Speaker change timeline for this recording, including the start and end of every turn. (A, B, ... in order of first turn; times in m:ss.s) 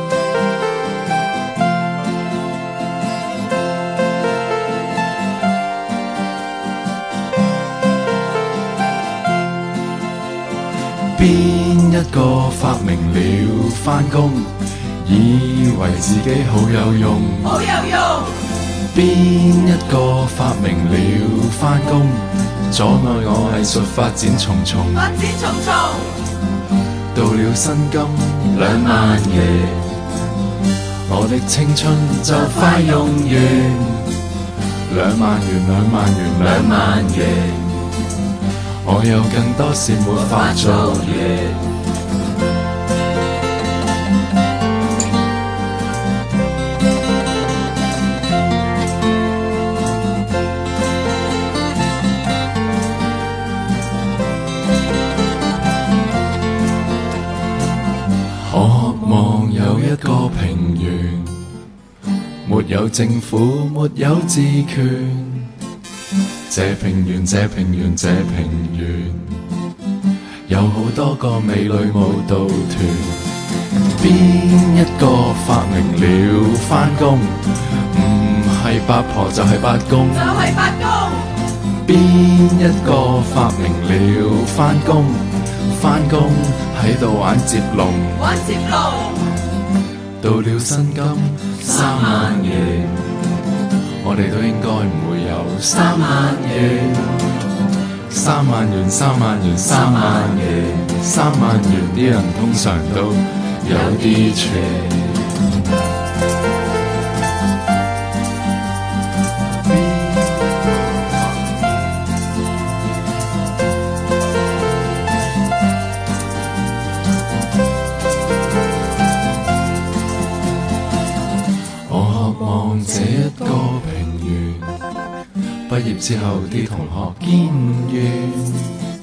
0:11.1-0:18.2 A
0:18.9-0:25.9 A
0:27.1-0:30.0 A
0:31.1-0:34.1 A
0:34.9-0:37.7 A
0:38.8-0:41.6 A
0:58.4-1:01.4 A
1:02.4-1:05.5 A
1:06.5-1:09.4 A
1:10.5-1:13.2 A
1:14.0-1:21.1 A
1:21.8-1:29.2 A
1:30.2-1:32.9 A
1:34.0-1:37.2 A
1:38.1-1:45.1 A
1:49.6-1:50.5 A
2:01.8-2:04.7 A
2:05.7-2:08.8 A